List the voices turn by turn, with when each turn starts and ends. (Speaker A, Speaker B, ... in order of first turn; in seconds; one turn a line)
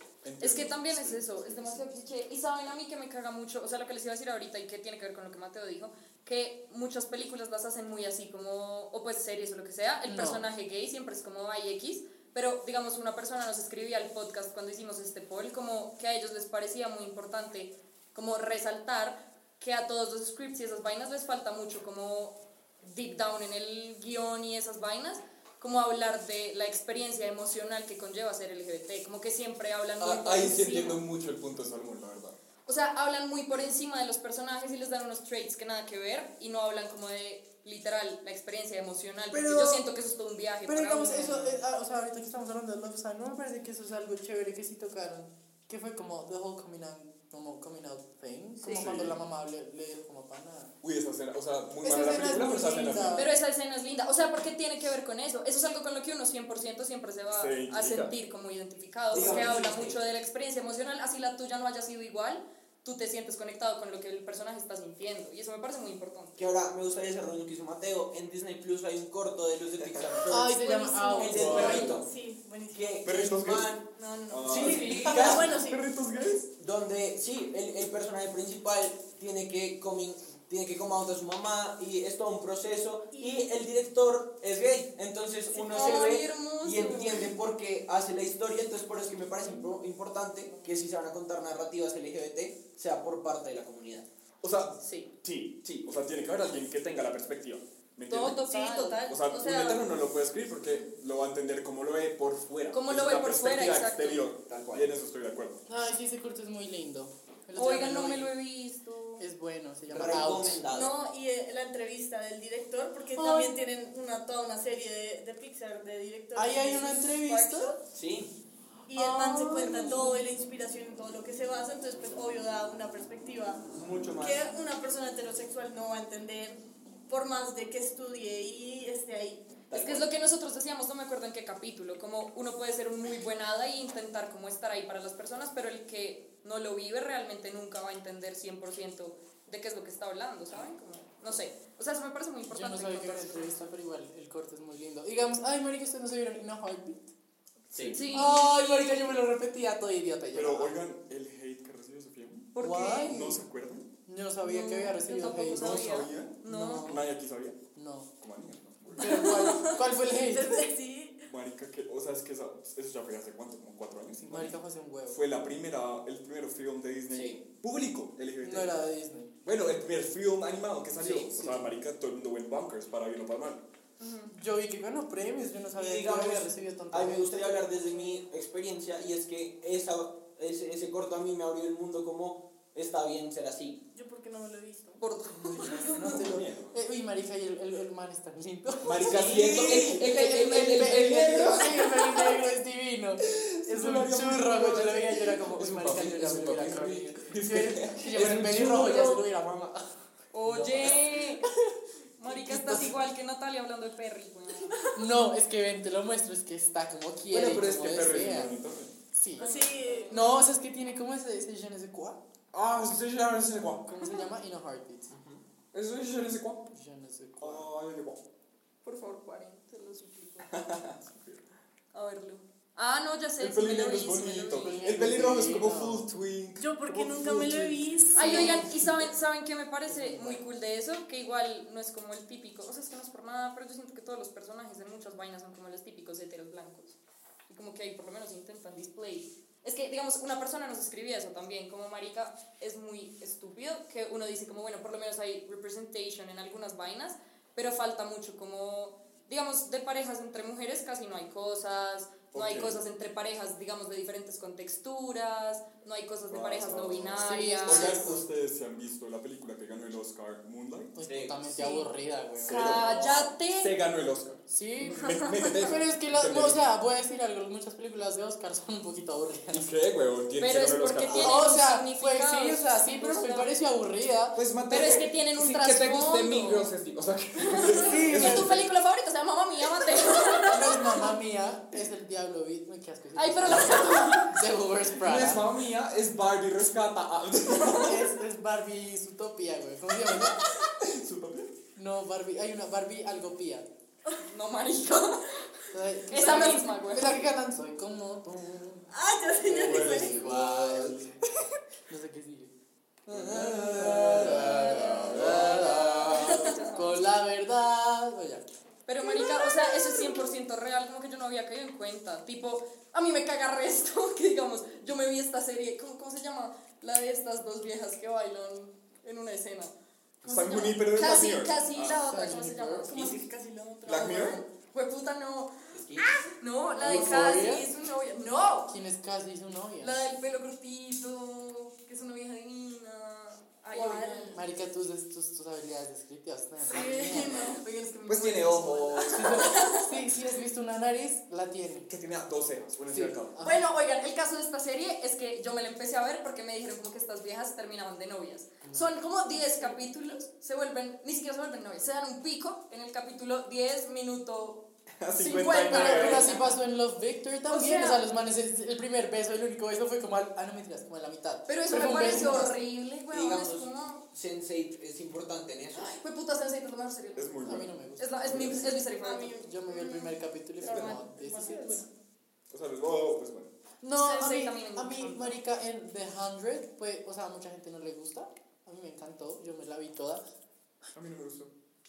Speaker A: 0.2-1.8
Speaker B: 0.4-31.0
Speaker C: 10.1-10.4
Speaker A: 30.0-32.4
Speaker B: 32.6-41.6
Speaker C: 39.3-39.9
Speaker C: 40.6-50.7
Speaker A: 48.7-49.2
Speaker A: 50.8-53.3
Speaker C: 51.8-53.3
Speaker B: 53.1-66.4
Speaker A: 57.3-58.1
Speaker D: 59.1-60.0
Speaker A: 59.2-59.5
Speaker D: 66.4-70.5
Speaker C: 70.3-72.0
Speaker B: 70.6-71.2
Speaker E: 70.8-73.4
Speaker D: 71.2-72.1
Speaker A: 71.3-72.0
Speaker D: 72.7-73.8
Speaker A: 73.0-73.7
Speaker B: 74.0-74.4
Speaker E: 74.2-75.9
Speaker A: 74.3-76.5
Speaker D: 74.5-75.5
Speaker D: 76.6-94.1
Speaker E: 83.1-83.5
Speaker B: 85.5-87.3
Speaker E: 85.7-86.0
Speaker A: 94.4-105.6
Speaker B: 94.8-95.1
Speaker B: 98.1-99.8
Speaker E: 98.7-99.0
Speaker B: 102.7-104.2
Speaker D: 104.5-104.9
Speaker C: 105.7-108.3
Speaker B: 107.5-109.2
Speaker C: 109.2-110.6
Speaker D: 109.9-110.9
Speaker E: 110.7-117.8
Speaker C: 113.1-113.5
Speaker C: 116.3-117.7
Speaker D: 117.9-118.3
Speaker E: 118.9-129.5
Speaker C: 118.9-120.2
Speaker D: 123.7-124.5
Speaker D: 129.7-130.1
Speaker B: 129.7-143.6
Speaker C: 142.5-147.1
Speaker A: 147.7-148.0
Speaker D: 147.7-148.0
Speaker B: 147.9-148.4
Speaker C: 148.1-150.8
Speaker A: 150.3-152.5
Speaker B: 152.5-153.2
Speaker C: 152.6-153.4
Speaker A: 153.1-153.9
Speaker C: 154.1-155.8
Speaker B: 154.4-156.9
Speaker A: 155.3-157.6
Speaker C: 156.4-157.1
Speaker C: 157.7-158.1
Speaker A: 158.2-159.3
Speaker C: 159.0-160.7
Speaker E: 159.2-161.2
Speaker A: 161.2-164.6
Speaker C: 164.3-165.2
Speaker A: 165.1-168.7
Speaker D: 167.1-167.4
Speaker C: 168.4-169.3
Speaker A: 169.4-173.6
Speaker D: 171.0-171.3
Speaker C: 171.3-171.7
Speaker B: 174.0-174.3
Speaker C: 174.3-177.4
Speaker D: 175.7-183.8
Speaker E: 183.9-185.0
Speaker B: 185.0-186.2
Speaker C: 185.4-199.7
Speaker A: 185.8-186.7
Speaker A: 188.8-192.3
Speaker D: 189.0-191.4
Speaker A: 193.2-199.7
Speaker B: 200.3-201.4
Speaker A: 200.4-201.0
Speaker B: 202.2-204.8
Speaker C: 202.2-202.9
Speaker C: 204.9-208.5
Speaker A: 207.3-209.0
Speaker C: 209.1-212.2
Speaker B: 209.4-210.2
Speaker E: 209.4-210.3
Speaker A: 212.5-213.9
Speaker C: 213.8-215.1
Speaker D: 215.1-215.4
Speaker A: 215.7-216.6
Speaker C: 216.7-217.7
Speaker A: 217.4-218.2
Speaker B: 218.8-220.5
Speaker A: 220.4-221.4
Speaker B: 221.9-224.8
Speaker A: 223.4-227.8
Speaker C: 224.6-226.1
Speaker E: 226.6-228.7
Speaker B: 228.2-258.1
Speaker C: 228.2-228.6
Speaker C: 229.9-230.4
Speaker A: 252.3-252.8
Speaker A: 256.3-261.0
Speaker C: 257.2-258.2
Speaker C: 260.9-262.9
Speaker D: 261.1-261.4
Speaker B: 261.6-261.8
Speaker A: 262.4-266.6
Speaker B: 262.4-263.7
Speaker C: 264.5-269.7
Speaker B: 265.0-265.7
Speaker A: 269.5-271.4
Speaker B: 270.4-273.5
Speaker C: 271.1-274.4
Speaker A: 274.3-278.6
Speaker B: 274.7-276.7
Speaker B: 277.4-281.0
Speaker C: 277.8-278.6
Speaker C: 280.5-285.5
Speaker B: 283.1-284.3
Speaker A: 284.9-288.1
Speaker C: 287.8-290.4
Speaker A: 290.6-291.5
Speaker C: 291.8-293.7
Speaker B: 294.2-295.4
Speaker C: 295.7-298.9
Speaker B: 296.1-297.2
Speaker E: 296.2-296.5
Speaker E: 298.9-300.2
Speaker C: 299.4-301.2
Speaker A: 299.5-301.1
Speaker C: 301.9-302.5
Speaker A: 303.1-305.7
Speaker C: 303.1-308.4
Speaker B: 304.5-307.0
Speaker E: 306.1-306.5
Speaker B: 308.9-319.7
Speaker E: 309.0-310.2
Speaker A: 320.2-322.2
Speaker B: 320.3-323.2
Speaker C: 321.9-323.0
Speaker E: 322.9-324.4
Speaker A: 323.8-324.4
Speaker B: 323.9-328.7
Speaker D: 325.7-326.1
Speaker C: 326.8-327.7
Speaker E: 326.8-327.1
Speaker C: 328.7-330.1
Speaker B: 329.8-334.4
Speaker E: 333.7-334.4
Speaker C: 334.3-337.4
Speaker B: 336.7-339.9
Speaker E: 336.7-337.6
Speaker A: 338.1-339.2
Speaker C: 339.1-341.9
Speaker A: 341.9-343.4
Speaker C: 342.9-343.6
Speaker B: 343.4-356.4
Speaker C: 348.6-348.9
Speaker A: 355.0-356.4
Speaker C: 355.7-362.6
Speaker B: 357.5-358.0
Speaker B: 361.5-364.0
Speaker D: 363.1-365.9
Speaker B: 365.7-369.7
Speaker A: 367.1-367.7
Speaker C: 367.4-368.8
Speaker A: 368.2-368.7
Speaker E: 369.0-371.9
Speaker C: 369.4-371.9
Speaker B: 370.7-371.0
Speaker A: 372.5-373.5
Speaker C: 373.8-380.2
Speaker B: 373.9-375.4
Speaker A: 380.9-381.5